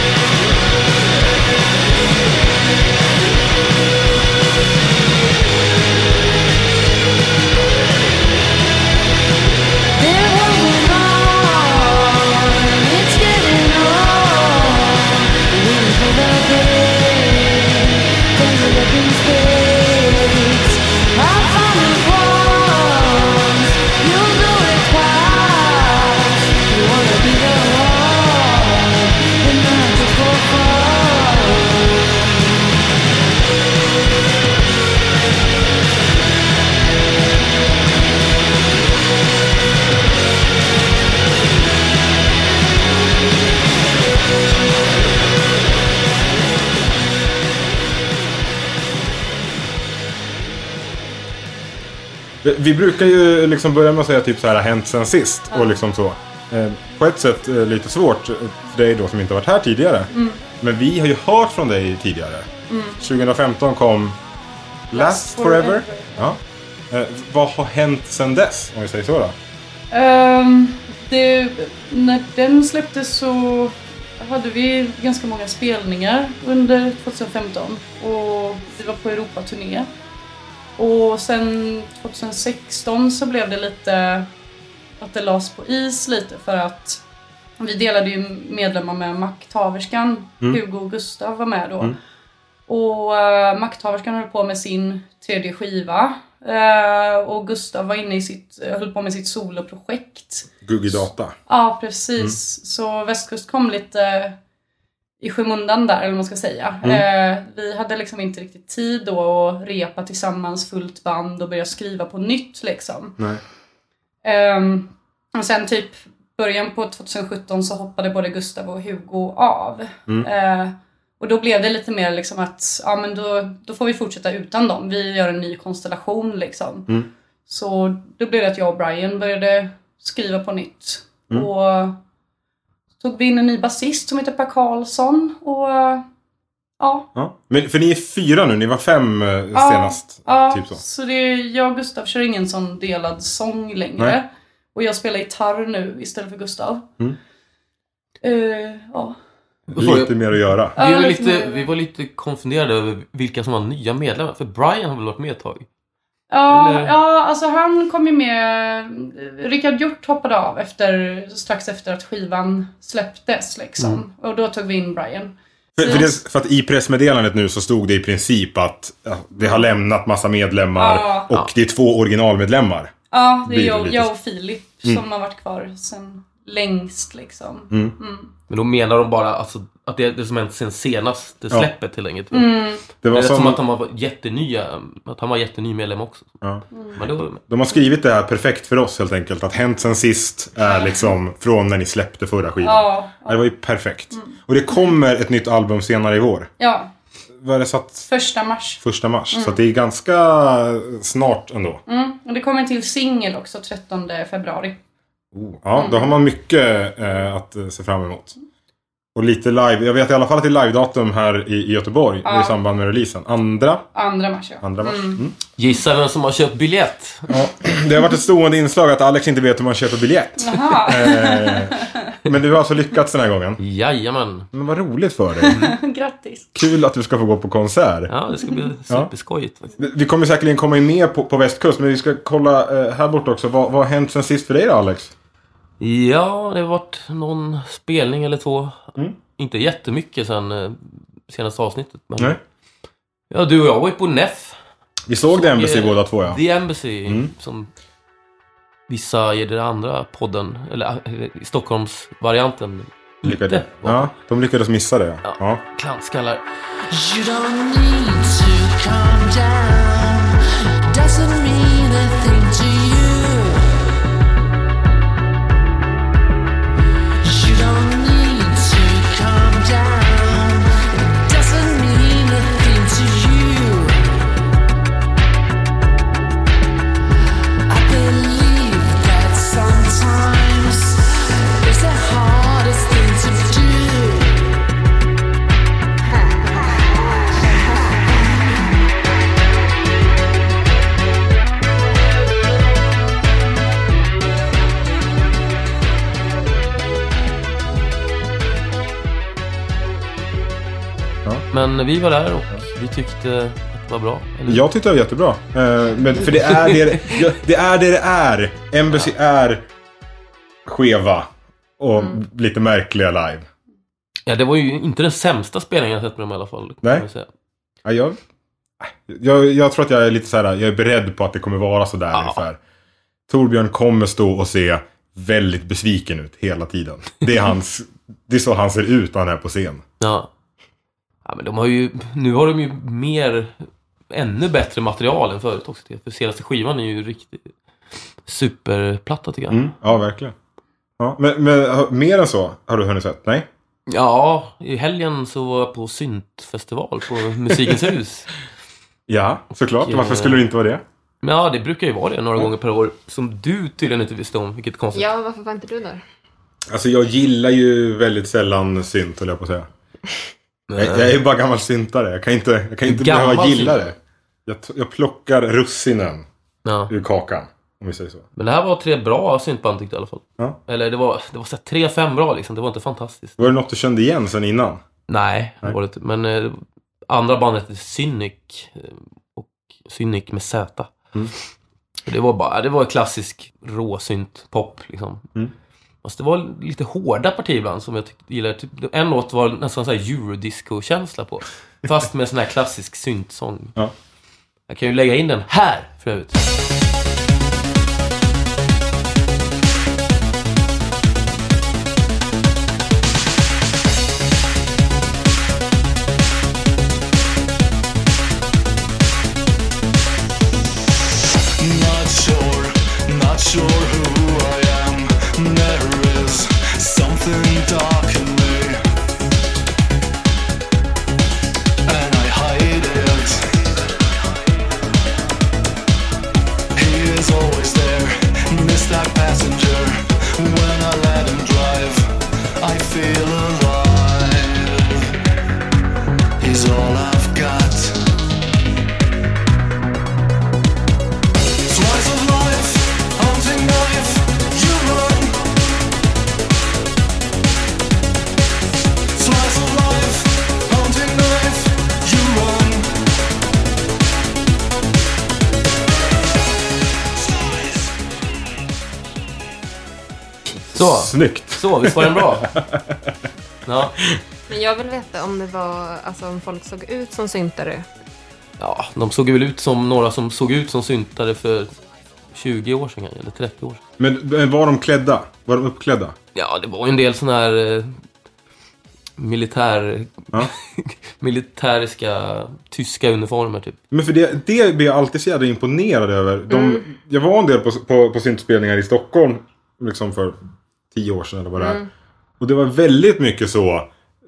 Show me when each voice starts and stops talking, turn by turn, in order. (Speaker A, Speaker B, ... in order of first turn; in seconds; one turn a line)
Speaker A: 10.0-32.6
Speaker B: 52.4-62.5
Speaker C: 55.5-55.8
Speaker C: 60.1-60.4
Speaker C: 62.7-63.0
Speaker B: 63.0-64.2
Speaker B: 64.9-69.3
Speaker C: 64.9-66.3
Speaker C: 69.9-79.9
Speaker C: 80.8-84.3
Speaker C: 85.0-87.0
Speaker C: 87.6-92.0
Speaker C: 92.7-100.5
Speaker B: 100.6-101.3
Speaker C: 101.5-104.4
Speaker C: 105.2-113.2
Speaker C: 114.2-126.9
Speaker C: 127.5-132.0
Speaker C: 133.0-136.0
Speaker C: 136.8-137.1
Speaker B: 137.1-140.8
Speaker C: 139.5-146.9
Speaker C: 148.2-149.2
Speaker B: 149.7-150.8
Speaker D: 149.7-155.7
Speaker C: 150.8-151.7
Speaker C: 156.3-166.1
Speaker D: 156.5-156.9
Speaker B: 165.8-172.9
Speaker C: 169.4-169.7
Speaker C: 170.8-171.3
Speaker C: 173.1-178.3
Speaker B: 173.4-174.1
Speaker D: 178.5-182.5
Speaker C: 182.3-182.8
Speaker B: 183.0-183.6
Speaker D: 183.1-186.4
Speaker C: 186.7-187.0
Speaker D: 186.9-187.4
Speaker B: 187.4-196.5
Speaker C: 190.6-191.1
Speaker C: 192.6-193.5
Speaker C: 194.1-194.8
Speaker C: 196.6-196.9
Speaker B: 197.4-198.1
Speaker C: 198.1-199.6
Speaker B: 198.8-201.8
Speaker C: 201.9-204.8
Speaker B: 205.3-208.3
Speaker C: 205.8-206.2
Speaker B: 209.1-213.9
Speaker C: 212.2-212.6
Speaker C: 213.9-215.2
Speaker B: 214.6-215.4
Speaker D: 215.6-217.4
Speaker B: 217.3-223.6
Speaker C: 220.4-222.1
Speaker D: 223.6-224.5
Speaker B: 224.5-225.6
Speaker C: 225.4-226.6
Speaker B: 226.5-228.1
Speaker D: 228.1-229.7
Speaker C: 228.4-228.7
Speaker B: 229.8-235.1
Speaker D: 235.8-242.4
Speaker D: 243.3-244.6
Speaker B: 245.1-246.4
Speaker D: 245.2-247.7
Speaker B: 247.1-247.3
Speaker D: 248.9-254.1
Speaker B: 253.2-255.6
Speaker D: 255.2-256.4
Speaker A: 256.9-263.8
Speaker A: 267.2-274.1
Speaker A: 277.7-284.5
Speaker D: 301.5-304.6
Speaker B: 304.4-309.6
Speaker D: 306.4-307.1
Speaker B: 310.6-313.5
Speaker D: 314.3-317.3
Speaker B: 317.8-318.2
Speaker B: 318.8-322.6
Speaker D: 322.1-322.4
Speaker B: 323.3-329.8
Speaker D: 330.0-330.3
Speaker D: 331.2-333.6
Speaker D: 334.1-337.5
Speaker D: 338.2-339.6
Speaker B: 339.5-340.3
Speaker B: 341.0-343.5
Speaker D: 343.9-348.3
Speaker B: 349.1-350.8
Speaker D: 349.8-350.4
Speaker D: 351.2-355.1
Speaker E: 354.9-356.0
Speaker B: 356.7-359.7
Speaker D: 360.7-361.1
Speaker B: 360.8-366.2
Speaker D: 362.8-363.8
Speaker D: 366.6-366.9
Speaker B: 366.9-368.2
Speaker D: 368.4-373.5
Speaker B: 373.4-374.8
Speaker D: 375.1-380.9
Speaker D: 382.1-385.2
Speaker D: 386.0-393.8
Speaker D: 394.7-396.4
Speaker F: 411.6-418.8
Speaker F: 421.8-423.4
Speaker F: 426.8-435.1
Speaker F: 436.4-438.0
Speaker F: 441.6-445.4
Speaker F: 449.1-452.9
Speaker D: 460.7-462.5
Speaker B: 460.8-463.2
Speaker D: 463.6-464.0
Speaker E: 464.5-467.9
Speaker D: 468.6-471.7
Speaker D: 472.3-473.8
Speaker B: 474.0-476.1
Speaker D: 476.3-478.0
Speaker D: 479.2-483.8
Speaker B: 483.9-490.4
Speaker E: 486.5-486.8
Speaker B: 490.9-491.8
Speaker E: 491.6-491.9
Speaker B: 492.4-493.9